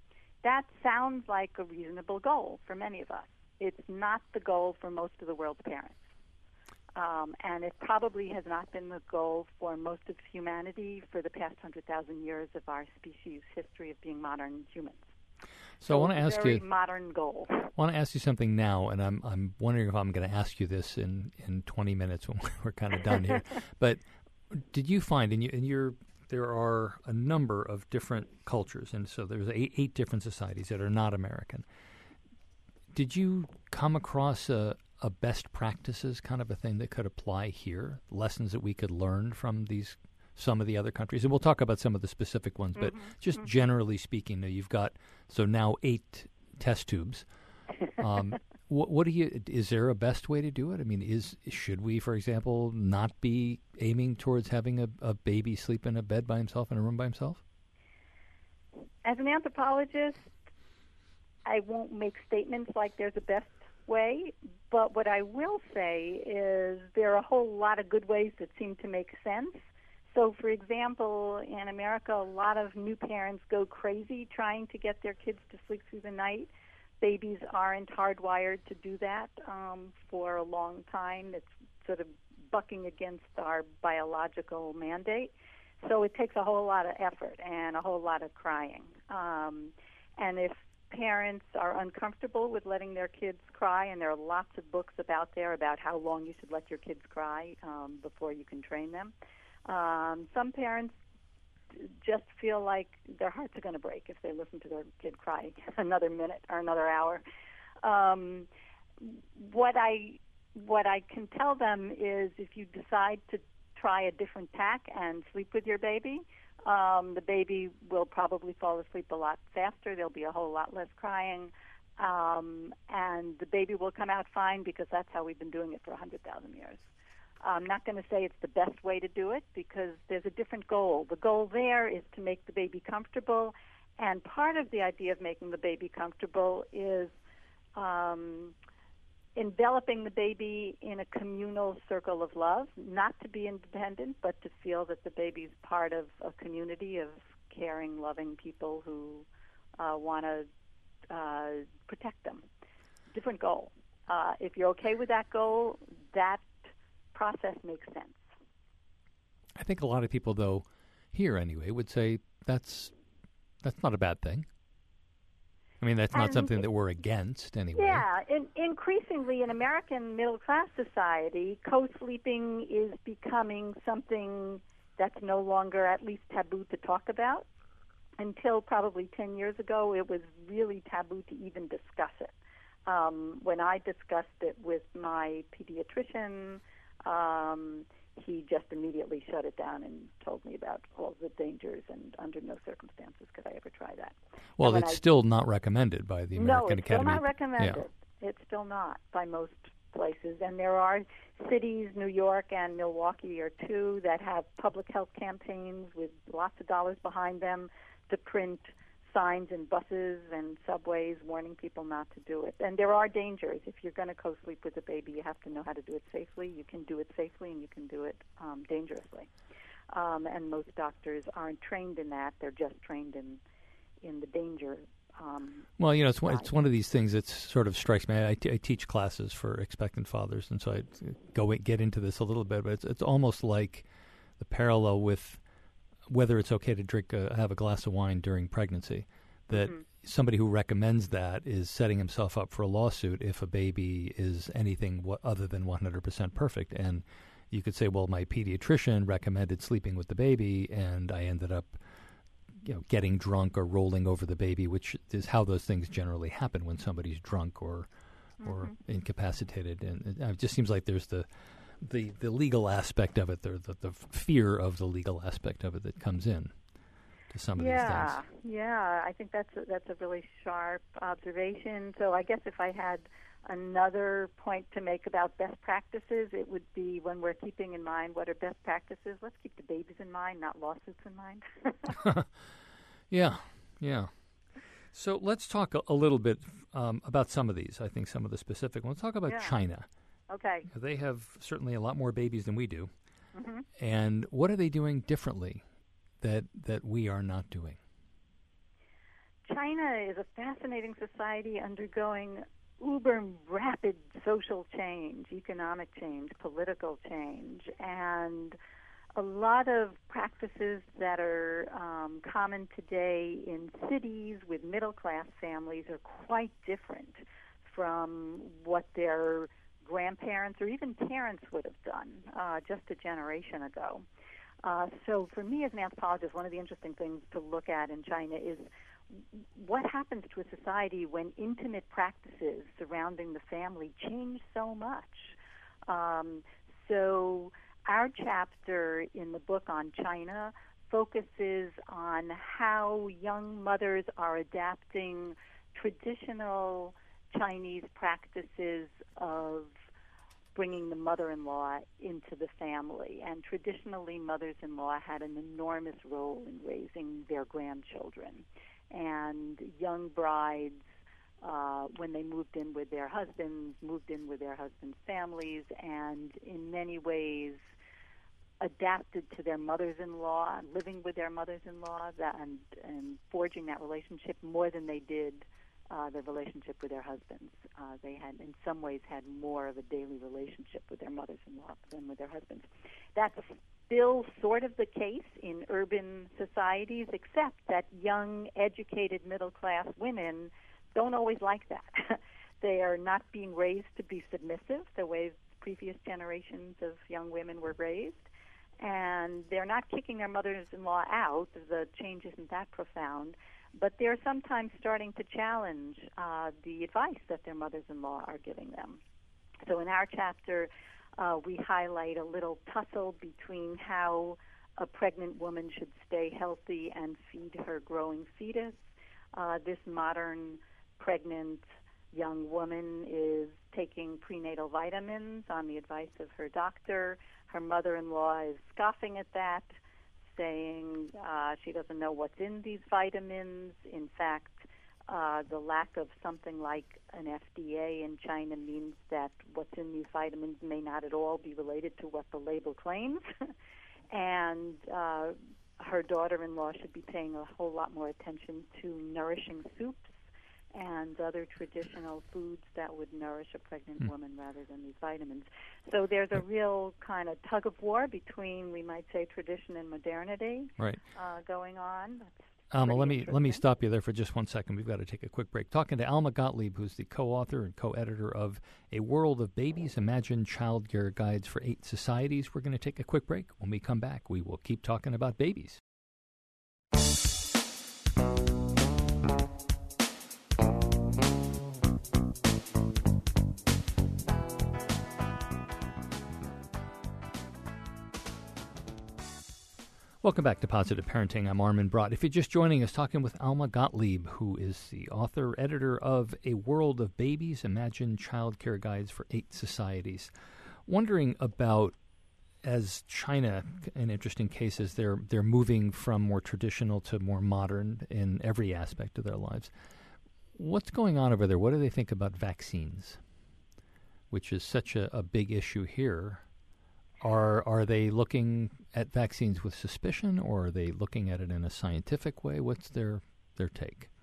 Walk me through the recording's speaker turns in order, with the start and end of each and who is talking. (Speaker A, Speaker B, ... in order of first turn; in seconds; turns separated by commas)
Speaker A: 0.4-6.0, Speaker A: 7.0-15.1, Speaker B: 15.8-16.6, Speaker A: 15.9-17.7, Speaker B: 17.8-31.6, Speaker B: 32.9-47.2, Speaker A: 42.8-43.4, Speaker B: 48.0-57.4, Speaker A: 59.0-60.3, Speaker A: 61.5-99.1, Speaker A: 99.7-101.0, Speaker A: 101.7-107.2, Speaker A: 107.8-108.5, Speaker A: 109.0-126.9, Speaker A: 127.4-137.1, Speaker A: 137.8-138.5, Speaker A: 139.4-149.3, Speaker A: 149.8-150.5, Speaker A: 151.1-152.4, Speaker A: 153.1-156.6, Speaker A: 157.1-158.3, Speaker B: 159.6-162.9, Speaker B: 163.6-164.5, Speaker B: 165.8-168.1, Speaker A: 166.1-166.6, Speaker A: 167.8-177.4, Speaker A: 178.2-182.3, Speaker A: 182.9-195.0, Speaker B: 194.6-197.8, Speaker A: 196.3-219.3, Speaker A: 219.9-223.4, Speaker A: 224.0-225.7, Speaker B: 225.8-233.8, Speaker A: 226.2-226.5, Speaker B: 234.4-235.4, Speaker B: 236.1-251.8, Speaker A: 239.5-239.8, Speaker B: 252.6-257.9, Speaker A: 258.4-258.7, Speaker B: 258.4-261.3, Speaker B: 261.8-266.5, Speaker B: 267.3-268.2, Speaker A: 267.6-282.0, Speaker B: 281.9-282.3, Speaker B: 283.1-284.1, Speaker B: 284.9-289.9, Speaker A: 289.2-289.5, Speaker A: 290.3-290.7, Speaker B: 290.7-292.9, Speaker A: 293.3-293.7, Speaker B: 293.8-295.6, Speaker B: 296.2-297.8, Speaker A: 299.4-308.6, Speaker A: 309.2-324.1, Speaker A: 324.6-335.3, Speaker A: 335.9-349.7, Speaker A: 350.6-360.8, Speaker A: 361.4-367.6, Speaker A: 368.6-398.3, Speaker A: 398.8-409.0, Speaker A: 409.6-429.7, Speaker A: 430.3-443.5, Speaker A: 444.1-450.2, Speaker A: 450.7-463.6, Speaker B: 462.7-475.8, Speaker B: 490.2-500.3, Speaker B: 500.9-501.9, Speaker B: 502.6-509.7, Speaker B: 510.6-513.2, Speaker B: 514.3-516.4, Speaker B: 517.2-524.1